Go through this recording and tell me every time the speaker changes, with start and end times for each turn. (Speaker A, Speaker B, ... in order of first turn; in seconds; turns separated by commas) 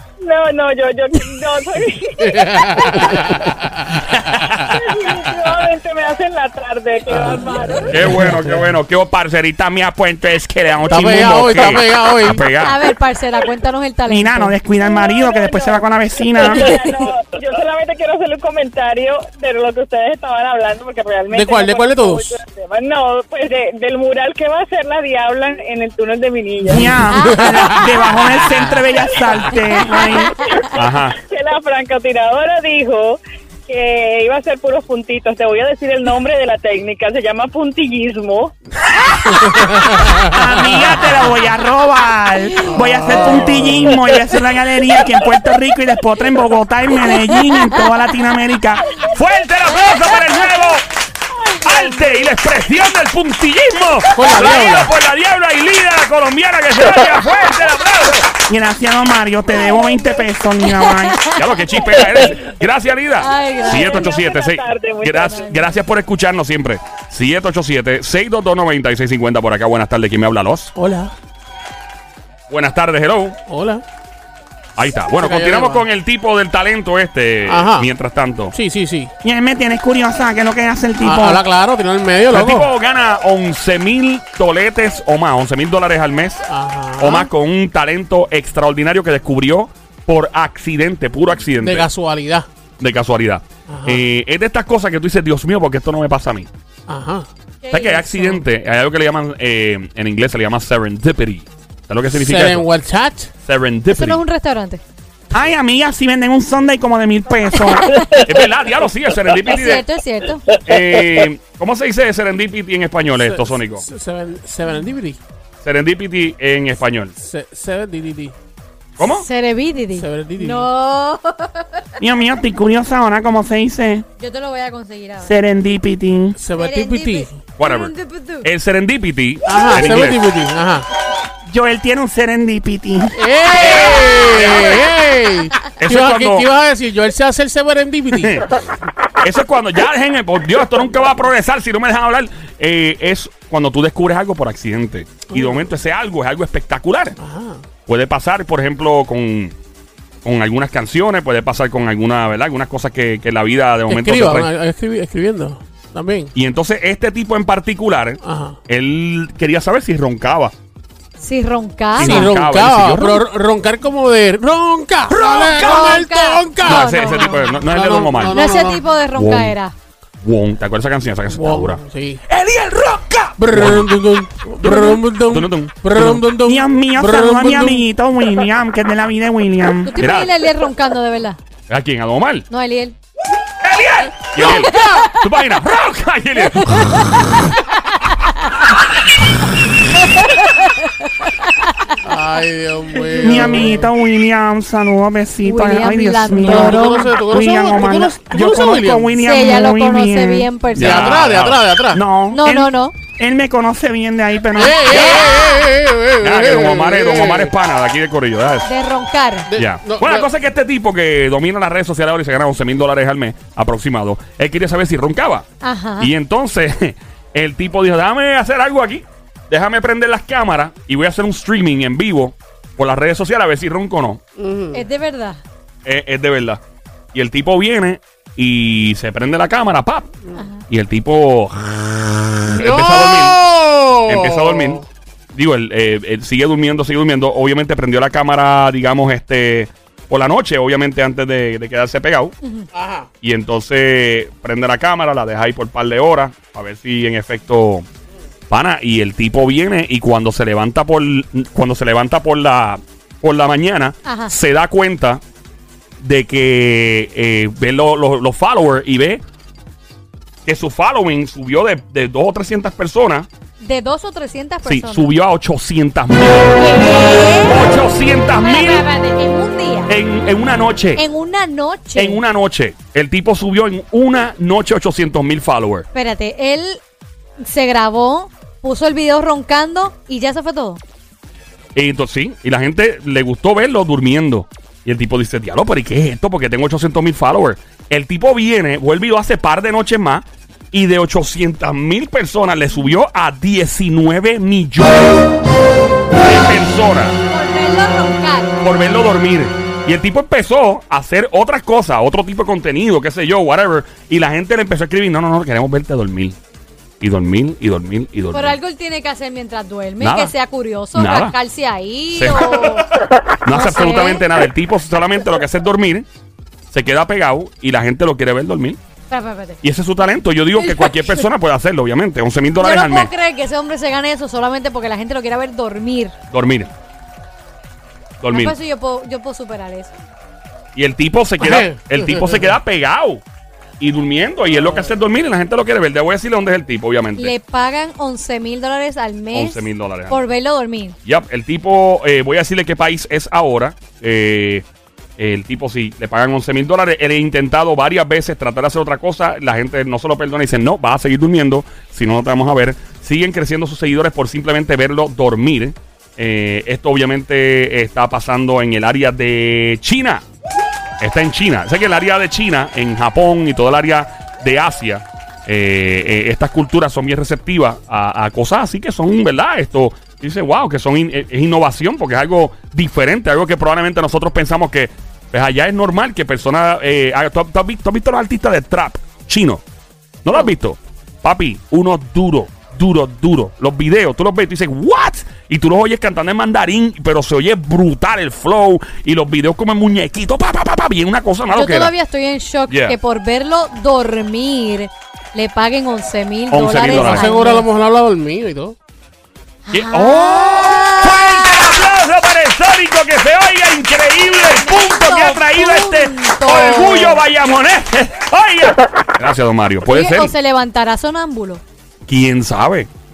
Speaker A: 0.2-3.4, Speaker B: 2.2-4.8, Speaker C: 4.1-5.2, Speaker A: 4.7-8.2, Speaker C: 7.9-12.8, Speaker B: 8.0-8.5, Speaker B: 10.9-12.4, Speaker D: 12.6-14.6, Speaker E: 14.1-16.8, Speaker A: 14.7-27.4, Speaker B: 21.3-22.4, Speaker E: 26.6-30.5, Speaker D: 27.1-27.8, Speaker B: 27.4-28.4, Speaker A: 29.9-38.5, Speaker C: 30.7-31.2, Speaker E: 39.2-48.9, Speaker B: 39.4-41.0, Speaker B: 42.6-44.0, Speaker C: 49.1-50.9, Speaker A: 51.3-52.3, Speaker C: 51.6-58.3, Speaker B: 54.1-54.9, Speaker E: 58.5-61.2, Speaker D: 60.7-61.5, Speaker C: 61.3-70.7, Speaker A: 61.8-62.5, Speaker D: 63.2-64.1, Speaker A: 63.4-65.8, Speaker B: 70.8-71.1, Speaker C: 72.5-73.4, Speaker B: 73.5-73.8, Speaker C: 74.8-78.5, Speaker B: 75.2-75.9, Speaker B: 77.5-77.9, Speaker B: 78.5-79.1, Speaker E: 79.2-81.4, Speaker B: 81.0-82.7, Speaker C: 82.3-86.4, Speaker B: 86.5-87.3, Speaker C: 87.0-91.9, Speaker B: 91.6-92.5, Speaker C: 92.8-96.5, Speaker B: 93.7-94.0, Speaker B: 96.9-97.3, Speaker D: 97.6-98.4, Speaker C: 97.7-102.7, Speaker B: 102.1-103.3, Speaker C: 103.4-104.2, Speaker D: 103.9-104.8, Speaker E: 105.3-107.9, Speaker D: 107.6-108.1, Speaker C: 108.1-109.8, Speaker D: 109.5-110.5, Speaker C: 110.6-113.9, Speaker B: 113.2-115.2, Speaker C: 115.6-117.1, Speaker B: 117.2-118.3, Speaker C: 119.0-119.3, Speaker D: 119.0-121.8, Speaker B: 120.0-120.7, Speaker E: 122.0-124.0, Speaker D: 124.2-125.3, Speaker E: 125.2-126.4, Speaker B: 126.4-127.3, Speaker D: 126.5-128.5, Speaker C: 127.6-130.2, Speaker B: 129.5-130.9, Speaker E: 131.5-133.2, Speaker B: 133.2-138.4, Speaker C: 133.6-134.8, Speaker C: 135.8-136.5, Speaker C: 138.1-138.6, Speaker C: 139.2-147.2, Speaker B: 145.3-145.6, Speaker B: 147.2-147.6, Speaker C: 147.9-149.5, Speaker C: 150.2-154.5, Speaker B: 153.9-156.3, Speaker C: 156.3-160.5, Speaker B: 158.2-158.6, Speaker D: 161.2-162.3, Speaker C: 162.0-163.2, Speaker B: 162.0-168.8, Speaker C: 165.1-165.6, Speaker D: 165.5-167.6, Speaker C: 166.6-168.4, Speaker D: 168.3-169.8, Speaker C: 169.2-169.6, Speaker C: 170.2-173.9, Speaker B: 171.3-172.2, Speaker B: 173.4-177.8, Speaker C: 174.6-176.2, Speaker E: 176.4-180.1, Speaker D: 179.8-181.4, Speaker C: 180.0-180.3, Speaker C: 181.7-182.5, Speaker D: 182.5-183.0, Speaker C: 183.6-186.9, Speaker D: 184.4-185.1, Speaker D: 186.6-188.5, Speaker D: 190.0-190.9, Speaker B: 192.0-193.9, Speaker E: 193.2-200.5, Speaker D: 195.4-197.2, Speaker B: 196.4-199.2, Speaker D: 199.2-201.2, Speaker B: 200.7-202.0, Speaker C: 200.8-201.6, Speaker E: 201.9-205.1, Speaker D: 202.3-202.9, Speaker B: 204.6-207.5, Speaker C: 206.2-208.7, Speaker D: 208.6-209.5, Speaker B: 209.5-210.3, Speaker C: 209.5-215.5, Speaker D: 215.6-216.1, Speaker C: 216.0-224.2, Speaker B: 224.4-224.8, Speaker D: 224.7-225.4, Speaker C: 225.8-226.6, Speaker C: 227.1-230.1, Speaker D: 230.3-230.6, Speaker C: 230.7-233.4, Speaker B: 232.5-234.8, Speaker C: 234.0-242.4, Speaker B: 242.7-243.1, Speaker C: 243.2-247.9, Speaker C: 248.5-255.2, Speaker D: 254.1-254.3, Speaker C: 256.0-259.2, Speaker C: 260.4-263.3, Speaker D: 263.6-265.1, Speaker C: 264.6-266.9, Speaker D: 266.6-267.7, Speaker C: 267.4-268.9, Speaker D: 268.3-269.9, Speaker C: 269.9-271.0, Speaker D: 271.0-272.2, Speaker C: 272.0-275.9, Speaker D: 275.9-276.8, Speaker D: 277.4-280.8, Speaker C: 281.8-295.3, Speaker C: 296.2-297.2, Speaker D: 297.2-298.6, Speaker C: 298.6-306.4, Speaker C: 307.0-308.6, Speaker D: 308.3-312.9, Speaker C: 310.0-310.3, Speaker C: 310.9-311.4, Speaker C: 312.1-316.1, Speaker D: 313.5-314.3, Speaker C: 316.7-318.8, Speaker D: 319.1-319.6, Speaker C: 319.6-323.1, Speaker D: 320.6-321.3, Speaker D: 322.6-326.1, Speaker C: 326.3-326.7, Speaker C: 328.2-328.6, Speaker D: 328.3-329.9, Speaker C: 330.8-333.2, Speaker B: 331.4-332.5, Speaker C: 333.8-337.4, Speaker D: 337.2-341.0, Speaker C: 339.3-340.3, Speaker C: 341.1-344.6, Speaker C: 345.2-360.2, Speaker C: 361.0-379.6, Speaker C: 380.2-391.9, Speaker D: 391.5-397.7, Speaker C: 392.7-393.0, Speaker C: 396.5-397.3, Speaker B: 396.9-398.8, Speaker D: 399.7-401.9, Speaker C: 399.7-410.3, Speaker D: 404.2-407.2, Speaker D: 409.9-411.6, Speaker C: 412.1-412.9